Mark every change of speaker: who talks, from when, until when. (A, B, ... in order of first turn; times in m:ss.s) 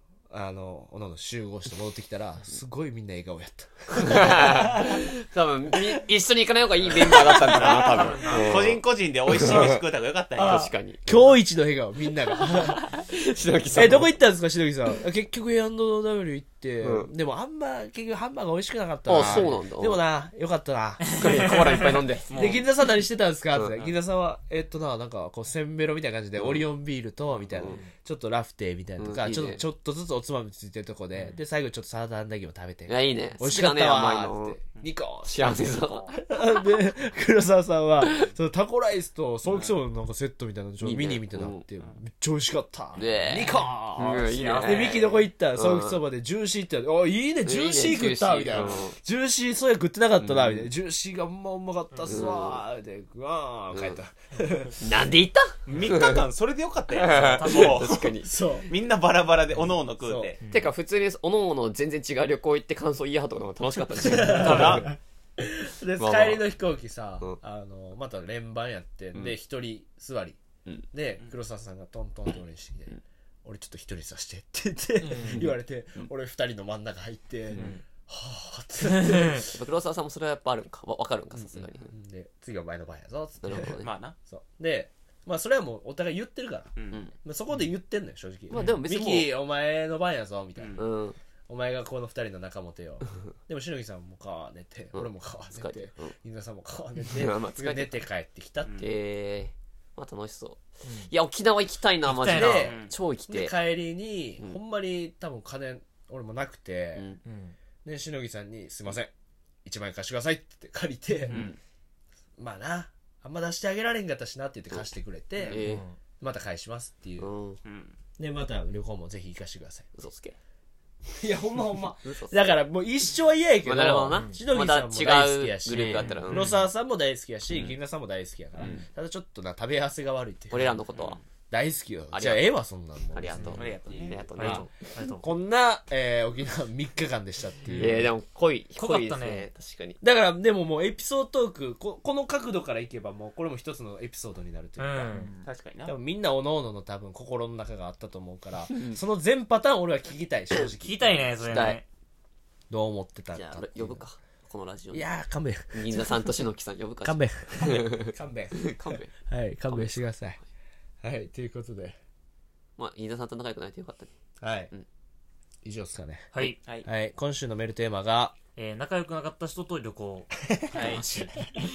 0:00.3-0:05.0 A
0:04.0-0:09.8 B
0:07.0-0:08.0 A
0:07.2-0:10.7 C
0:07.7-0:08.7 D
0:10.4-0:12.9 A
0:10.4-0:11.0 B
0:12.3-0:14.1 B
0:13.7-0:21.6 A
0:16.8-0:17.1 B
0:19.1-0:20.0 B
0:21.1-0:22.1 D
0:21.1-0:22.3 B
0:22.3-0:22.6 C
0:22.3-0:55.0 A
0:23.5-0:23.8 B
0:26.4-0:26.6 B
0:27.5-0:27.8 B
0:27.6-0:27.9 D
0:29.0-0:29.6 B
0:31.1-0:31.4 D
0:32.9-0:34.6 B
0:35.2-0:36.1 B
0:35.6-0:36.2 D
0:39.5-0:39.8 C
0:40.8-0:41.6 B
0:43.0-0:46.0 B
0:43.4-0:45.1 D
0:47.4-0:49.0 B
0:50.2-0:50.7 B
0:51.9-0:52.2 D
0:52.1-0:52.6 B
0:53.7-0:54.0 B
0:54.8-0:56.3 B
0:55.7-1:00.4 C
0:56.9-0:58.3 B
0:57.1-0:58.0 D
0:58.2-0:58.7 A
1:00.0-1:00.3 A
1:00.4-1:00.7 D
1:00.5-1:04.9 B
1:04.0-1:10.4 A
1:04.1-1:04.9 D
1:04.4-1:04.9 C
1:06.0-1:06.4 B
1:10.9-1:19.6 A
1:15.0-1:15.5 D
1:15.2-1:15.5 B
1:17.5-1:17.8 B
1:17.5-1:17.8 D
1:18.9-1:19.4 D
1:19.5-1:21.9 B
1:21.4-1:30.8 A
1:23.4-1:23.9 B
1:23.8-1:24.2 C
1:26.8-1:27.1 C
1:28.5-1:29.3 B
1:28.5-1:28.8 D
1:30.6-1:30.8 C
1:30.8-1:31.2 B
1:31.5-1:38.8 A
1:34.9-1:36.2 B
1:37.0-1:38.0 B
1:38.6-1:38.9 C
1:38.8-1:43.6 B
1:40.8-1:41.1 D
1:42.0-1:42.8 D
1:42.3-1:47.1 A
1:42.5-1:42.9 C
1:47.0-1:47.2 B
1:47.2-1:47.6 D
1:47.8-1:49.1 A
1:49.6-1:51.4 A
1:51.3-1:51.6 C
1:51.3-1:51.6 B
1:52.4-1:55.7 A
1:55.4-1:55.6 C
1:55.4-1:55.8 B
1:55.6-1:56.0 D
1:56.2-1:57.3 A
1:57.2-1:57.6 B
1:57.6-1:58.0 C
1:58.2-1:59.9 A
2:00.0-2:00.4 B
2:01.2-2:10.8 A
2:02.0-2:02.5 B
2:03.6-2:06.5 B
2:04.1-2:04.4 D
2:05.7-2:06.7 D
2:07.5-2:07.8 B
2:08.6-2:08.8 B
2:10.5-2:11.2 B
2:10.9-2:11.2 C
2:11.5-2:14.7 A
2:12.1-2:14.7 B
2:13.4-2:13.6 D
2:13.5-2:14.2 C
2:14.4-2:15.2 D
2:15.2-2:18.1 A
2:17.6-2:18.0 D
2:17.8-2:20.0 B
2:18.8-2:19.5 D
2:20.0-2:25.3 A
2:24.8-2:25.5 D
2:25.4-2:25.9 C
2:25.9-2:31.4 A
2:28.7-2:29.0 B
2:30.8-2:31.8 D
2:31.4-2:31.8 B
2:32.7-2:34.0 A
2:33.3-2:35.1 B
2:34.9-2:36.4 A
2:35.7-2:39.1 B
2:37.0-2:40.4 A
2:39.7-2:40.0 B
2:41.0-2:42.0 A
2:42.8-2:44.1 B
2:44.4-2:44.7 A
2:45.6-2:48.4 A
2:46.3-2:46.6 D
2:48.6-2:51.5 D
2:50.5-2:51.0 A
2:50.7-2:51.0 C